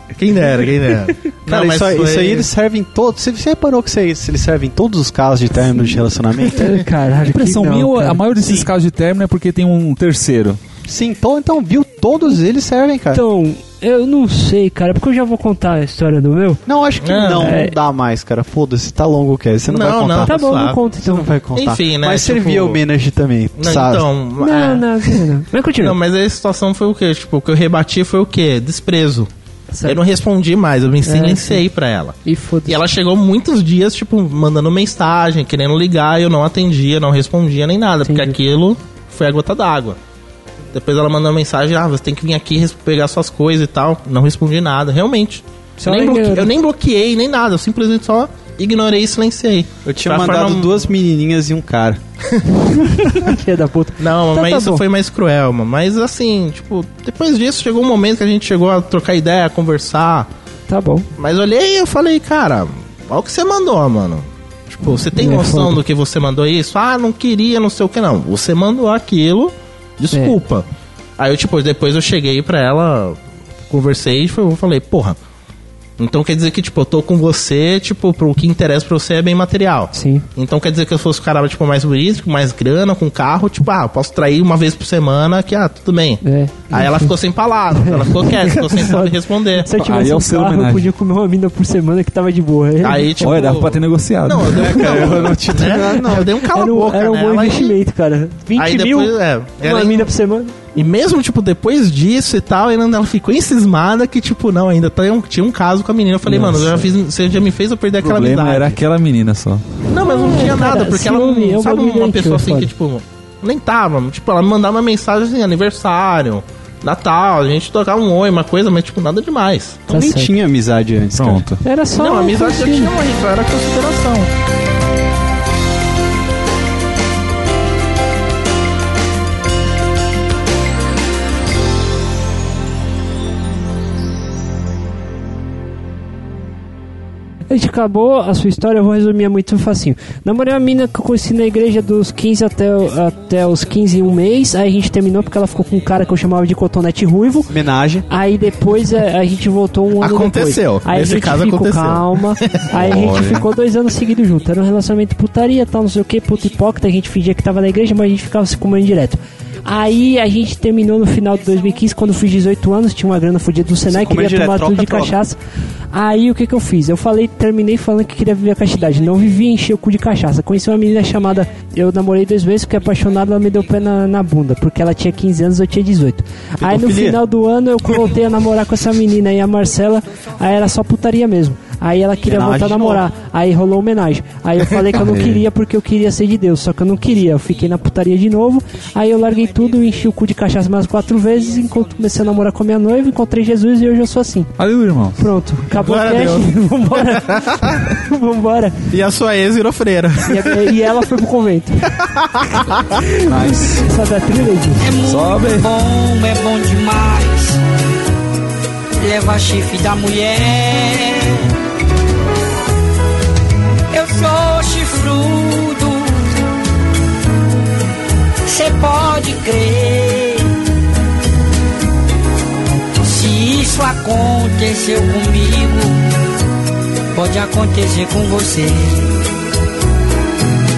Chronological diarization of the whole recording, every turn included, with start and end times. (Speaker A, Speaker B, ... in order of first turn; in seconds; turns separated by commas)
Speaker A: 0.1-2.5, Speaker B: 1.4-6.8, Speaker C: 6.5-8.2, Speaker D: 7.3-10.6, Speaker A: 8.4-8.7, Speaker B: 10.8-13.2, Speaker C: 13.1-16.6, Speaker B: 16.7-20.3, Speaker A: 17.0-17.5, Speaker C: 17.4-17.7, Speaker A: 19.7-20.8, Speaker C: 20.2-21.3, Speaker B: 21.0-24.1, Speaker A: 21.5-22.8, Speaker A: 23.6-25.2, Speaker C: 24.4-26.0, Speaker A: 25.8-29.3, Speaker C: 29.7-30.0, Speaker A: 29.8-40.0, Speaker C: 31.0-31.6, Speaker C: 32.2-32.8, Speaker C: 38.0-38.4, Speaker A: 40.7-50.8, Speaker C: 45.8-46.5, Speaker B: 49.9-52.0, Speaker A: 52.3-52.6, Speaker C: 52.7-54.8, Speaker A: 54.0-60.3, Speaker C: 60.7-61.1, Speaker A: 61.2-70.7, Speaker C: 65.2-65.8, Speaker C: 70.1-70.4, Speaker A: 71.2-73.2, Speaker A: 73.7-75.2, Speaker A: 76.0-89.7, Speaker C: 79.9-80.2, Speaker C: 86.2-87.1, Speaker C: 87.7-93.2, Speaker D: 89.8-90.9, Speaker A: 92.8-97.8, Speaker D: 93.2-95.4, Speaker B: 94.5-96.3, Speaker C: 95.6-100.5, Speaker A: 98.6-100.1, Speaker A: 100.7-108.8, Speaker D: 106.3-106.9, Speaker D: 108.0-109.6, Speaker A: 109.9-119.9, Speaker C: 110.0-112.7, Speaker C: 119.9-120.3, Speaker B: 119.9-121.5, Speaker D: 121.1-121.6, Speaker C: 121.6-122.9, Speaker A: 121.9-124.3, Speaker C: 137.5-147.5, Speaker B: 147.5-148.1, Speaker C: 148.1-165.4, Speaker A: 150.0-152.8, Speaker D: 152.8-153.4, Speaker B: 163.9-165.1, Speaker C: 165.9-194.5, Speaker B: 176.6-177.2, Speaker B: 182.3-183.1, Speaker D: 184.9-185.4, Speaker E: 189.1-190.1, Speaker E: 190.8-192.2, Speaker D: 194.6-195.2, Speaker C: 195.2-198.8, Speaker A: 195.7-197.9, Speaker A: 198.9-200.7, Speaker C: 200.2-201.8, Speaker A: 201.9-203.0, Speaker C: 202.9-204.9, Speaker D: 203.2-203.8, Speaker E: 204.8-207.6, Speaker D: 205.0-205.7, Speaker E: 209.0-211.5, Speaker E: 213.9-216.2, Speaker E: 218.4-220.5, Speaker E: 223.0-226.1, Speaker E: 227.1-229.2